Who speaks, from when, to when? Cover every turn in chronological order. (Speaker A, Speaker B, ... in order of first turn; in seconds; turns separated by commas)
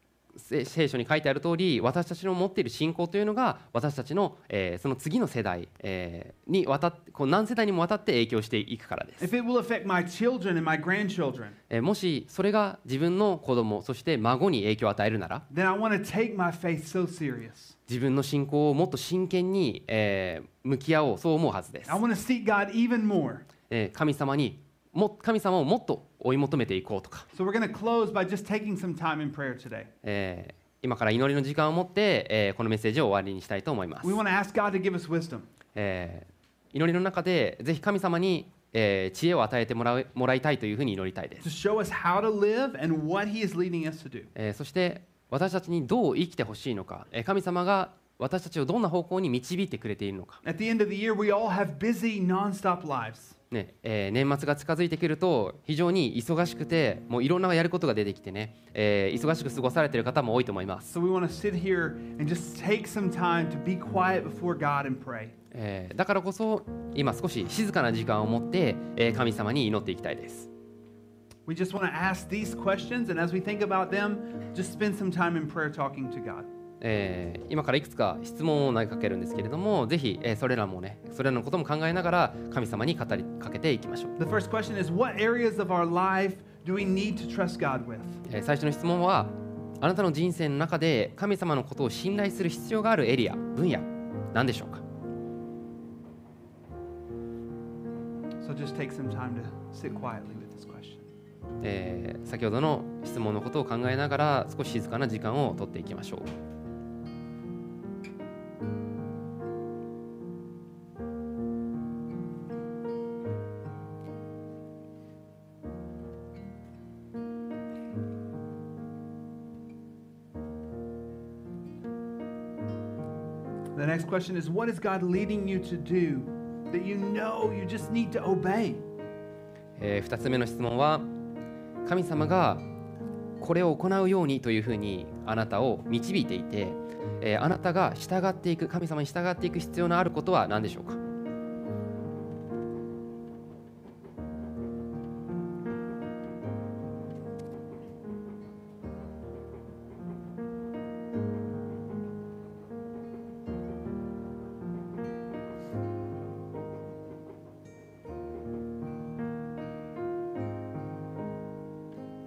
Speaker A: 0.3-9.3, Speaker B: 9.2-11.6, Speaker A: 11.7-15.5, Speaker B: 15.5-17.8, Speaker A: 17.9-22.0, Speaker B: 21.9-23.5, Speaker A: 23.7-27.3, Speaker B: 27.3-29.9, Speaker A: 30.0-34.2, Speaker B: 34.0-35.5, Speaker A: 35.8-41.5, Speaker B: 41.4-44.3, Speaker A: 44.4-50.4, Speaker B: 50.4-53.4, Speaker A: 53.5-60.9, Speaker B: 60.9-65.3, Speaker A: 65.5-70.5, Speaker B: 71.5-76.5, Speaker A: 76.8-84.1, Speaker B: 84.2-88.2, Speaker A: 88.3-94.8, Speaker B: 98.4-101.0, Speaker A: 101.6-106.3, Speaker B: 123.7-128.8, Speaker A: 129.8-131.1, Speaker A: 131.8-132.7, Speaker A: 133.4-141.0